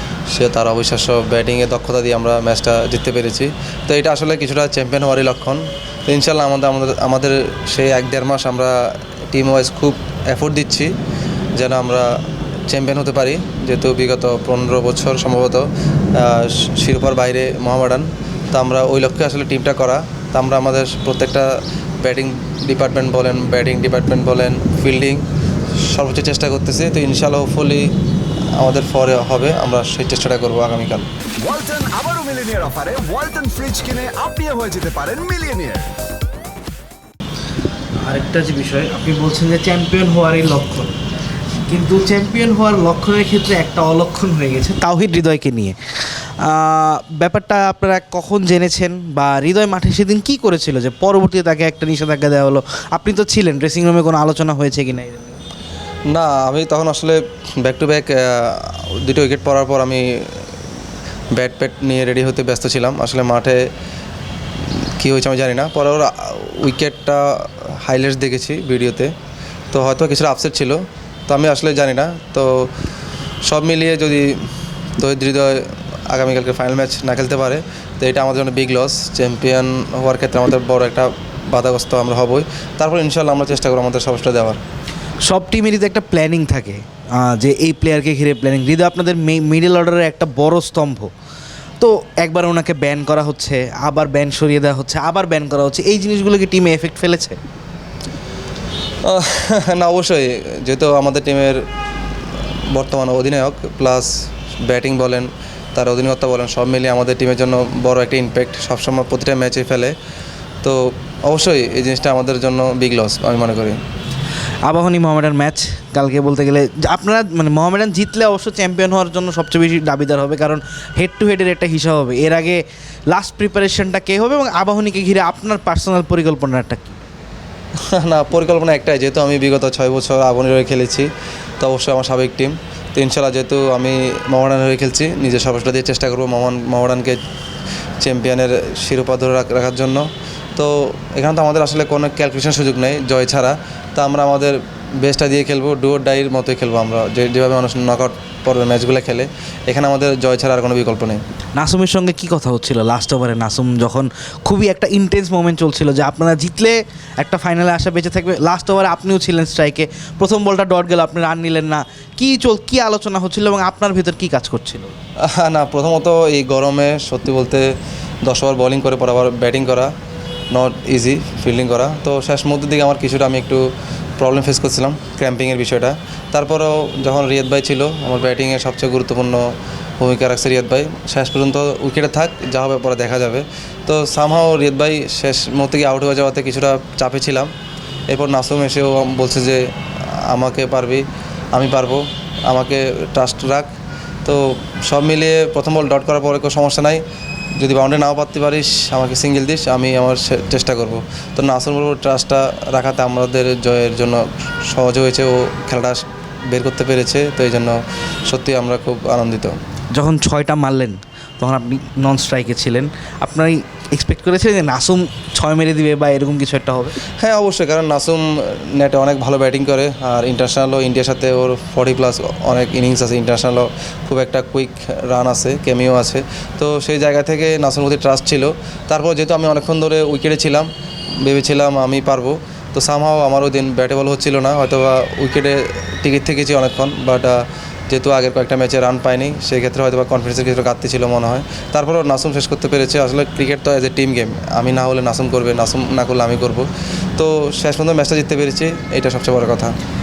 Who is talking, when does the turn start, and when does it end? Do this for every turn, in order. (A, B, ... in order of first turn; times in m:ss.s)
0:00.3-0:08.8 A
0:09.3-0:10.9 A
0:11.6-0:12.1 A
0:12.7-0:21.5 A
0:22.0-0:25.2 A
0:25.8-0:27.9 A
0:28.6-0:31.1 A
0:31.4-0:35.9 B
0:38.0-0:40.9 C
0:41.6-0:45.8 C
0:46.4-0:55.4 C
0:56.1-1:00.5 A
1:01.3-1:03.6 A
1:05.0-1:09.1 A
1:09.7-1:12.7 A
1:13.4-1:14.4 A
1:15.0-1:24.6 A
1:25.3-1:31.1 C
1:31.8-1:37.4 C
1:39.0-1:41.6 A
1:42.7-1:44.1 A
1:44.6-1:49.9 A
1:50.6-1:53.8 A
1:54.6-2:07.0 C
2:07.9-2:11.1 A
2:11.6-2:17.2 A
2:18.0-2:31.2 A
2:31.6-2:44.9 C
2:45.2-2:47.7 A
2:48.2-2:49.9 A
2:50.5-2:53.6 A
2:54.2-3:07.5 A
3:08.1-3:09.6 A
3:10.2-3:13.7 A
3:14.2-3:17.0 A
3:17.6-3:29.6 A
3:29.9-3:36.9 C
3:37.2-3:50.7 A
3:51.2-4:09.7 A